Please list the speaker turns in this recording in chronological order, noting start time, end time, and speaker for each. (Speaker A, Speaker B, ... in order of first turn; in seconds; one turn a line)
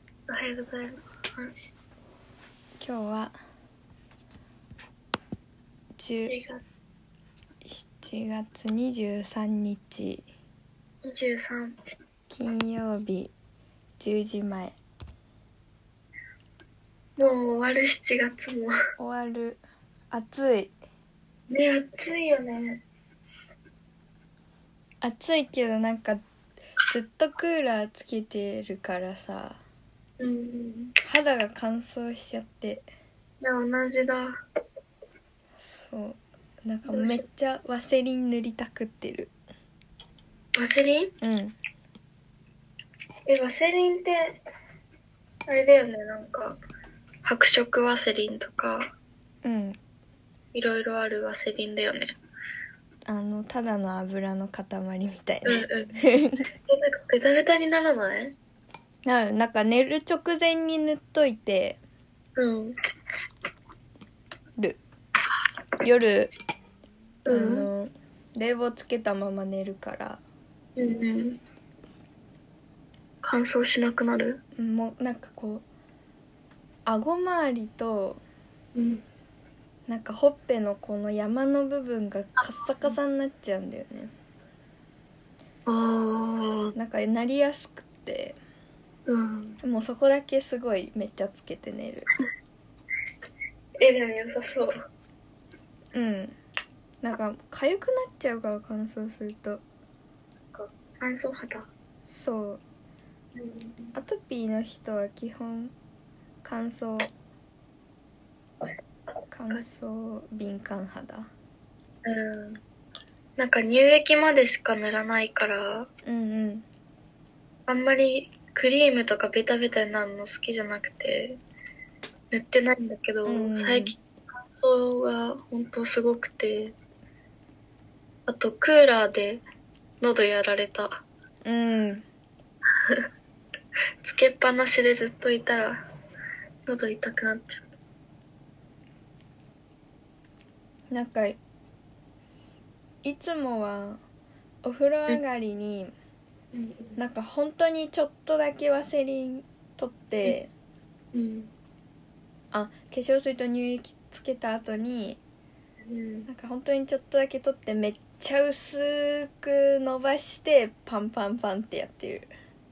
Speaker A: 0.3-1.7
Speaker B: 2.8-3.3
Speaker B: 6.0-6.3
Speaker A: 6.2-6.6
Speaker B: 7.6-10.2
Speaker A: 11.0-11.8
Speaker B: 12.3-13.3
Speaker B: 14.0-14.7
Speaker A: 17.2-18.7
Speaker B: 19.0-20.7
Speaker A: 21.5-22.8
Speaker B: 25.0-26.2
Speaker B: 26.9-29.6
Speaker A: 30.2-30.9
Speaker B: 31.0-32.9
Speaker A: 33.4-34.4
Speaker B: 35.5-39.3
Speaker A: 36.9-37.2
Speaker A: 40.5-41.1
Speaker B: 41.2-41.5
Speaker A: 43.3-44.4
Speaker A: 45.5-46.6
Speaker A: 47.2-48.9
Speaker B: 49.4-49.8
Speaker A: 50.5-52.1
Speaker B: 53.1-56.5
Speaker A: 55.4-56.1
Speaker A: 56.7-58.4
Speaker B: 59.0-61.8
Speaker A: 62.4-62.8
Speaker B: 65.8-66.3
Speaker A: 67.2-67.7
Speaker B: 67.3-70.2
Speaker A: 70.8-71.4
Speaker A: 73.2-74.4
Speaker B: 74.5-75.6
Speaker B: 76.8-78.2
Speaker A: 78.7-79.0
Speaker B: 79.9-84.1
Speaker A: 82.4-82.9
Speaker A: 85.7-86.7
Speaker B: 86.7-88.4
Speaker A: 89.1-89.6
Speaker B: 89.6-92.1
Speaker A: 93.8-94.7
Speaker B: 95.9-96.4
Speaker B: 97.0-99.6
Speaker A: 100.5-101.7
Speaker B: 102.1-102.6
Speaker A: 103.3-103.9
Speaker B: 103.9-105.7
Speaker B: 106.4-107.1
Speaker B: 109.3-111.3
Speaker A: 112.0-112.6
Speaker A: 113.4-115.9
Speaker B: 116.0-116.7
Speaker A: 117.7-121.4
Speaker A: 122.3-126.7
Speaker B: 123.2-123.9
Speaker A: 128.3-129.4
Speaker A: 130.0-131.0
Speaker B: 131.4-132.1
Speaker A: 134.0-135.8
Speaker A: 136.7-137.6
Speaker B: 140.9-141.4
Speaker B: 143.0-144.0
Speaker B: 144.6-145.9
Speaker A: 146.5-147.0
Speaker B: 147.0-150.5
Speaker A: 151.1-151.5
Speaker B: 152.5-155.2
Speaker A: 155.8-156.3
Speaker B: 156.3-162.3